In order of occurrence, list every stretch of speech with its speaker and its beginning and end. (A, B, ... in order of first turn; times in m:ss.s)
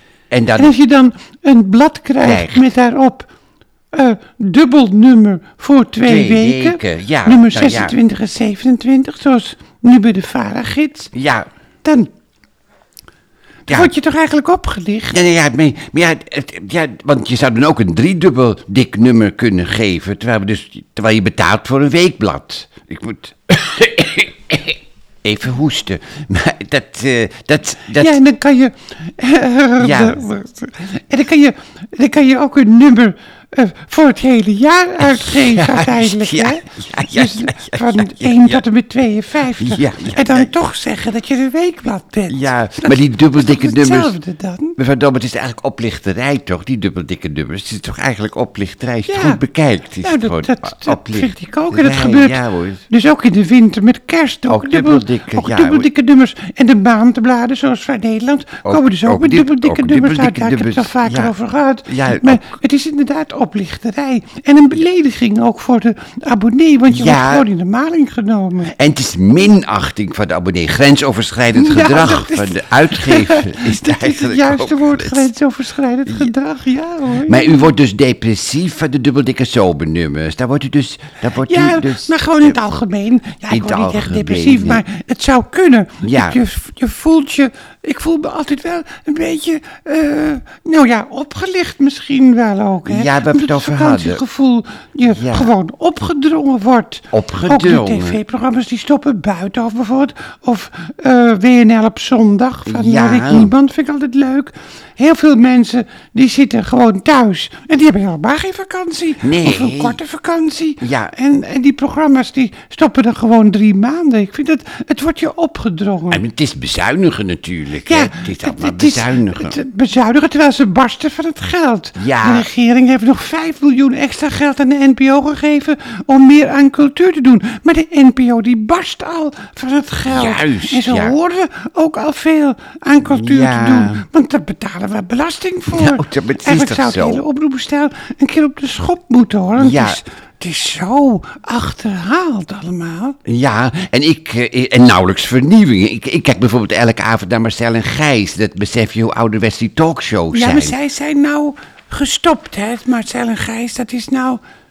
0:00.3-0:00.7 A
0:00.6-0:03.3 B
0:02.2-0:02.7 A
0:03.9-0:11.1 B
0:06.0-0:08.0 A
0:11.1-0:11.5 A
0:11.8-0:12.1 B
0:13.7-0:15.2 B
0:15.1-0:28.2 A
0:28.0-0:44.8 B
0:29.8-0:30.2 A
0:35.0-0:38.6 A
0:39.6-0:40.5 A
0:42.3-0:44.2 A
0:44.8-0:52.8 A
0:49.1-0:49.4 B
0:50.0-1:08.8 B
0:54.5-0:55.9 A
0:58.6-1:01.3 A
1:01.9-1:02.4 A
1:06.9-1:07.5 A
1:08.7-1:15.3 A
1:11.6-1:17.7 B
1:16.1-1:16.3 A
1:17.2-1:22.6 A
1:21.4-1:56.2 B
1:23.5-1:24.8 A
1:26.0-1:26.4 A
1:32.8-1:34.2 A
1:35.1-1:35.5 A
1:37.1-1:38.2 A
1:42.7-1:43.5 A
1:49.2-1:50.0 A
1:50.8-1:51.1 A
1:56.1-1:59.6 A
1:57.9-2:23.2 B
2:02.0-2:02.5 A
2:10.1-2:11.2 A
2:13.0-2:14.0 A
2:15.7-2:17.2 A
2:19.6-2:20.0 A
2:23.3-2:30.8 A
2:30.3-2:34.4 B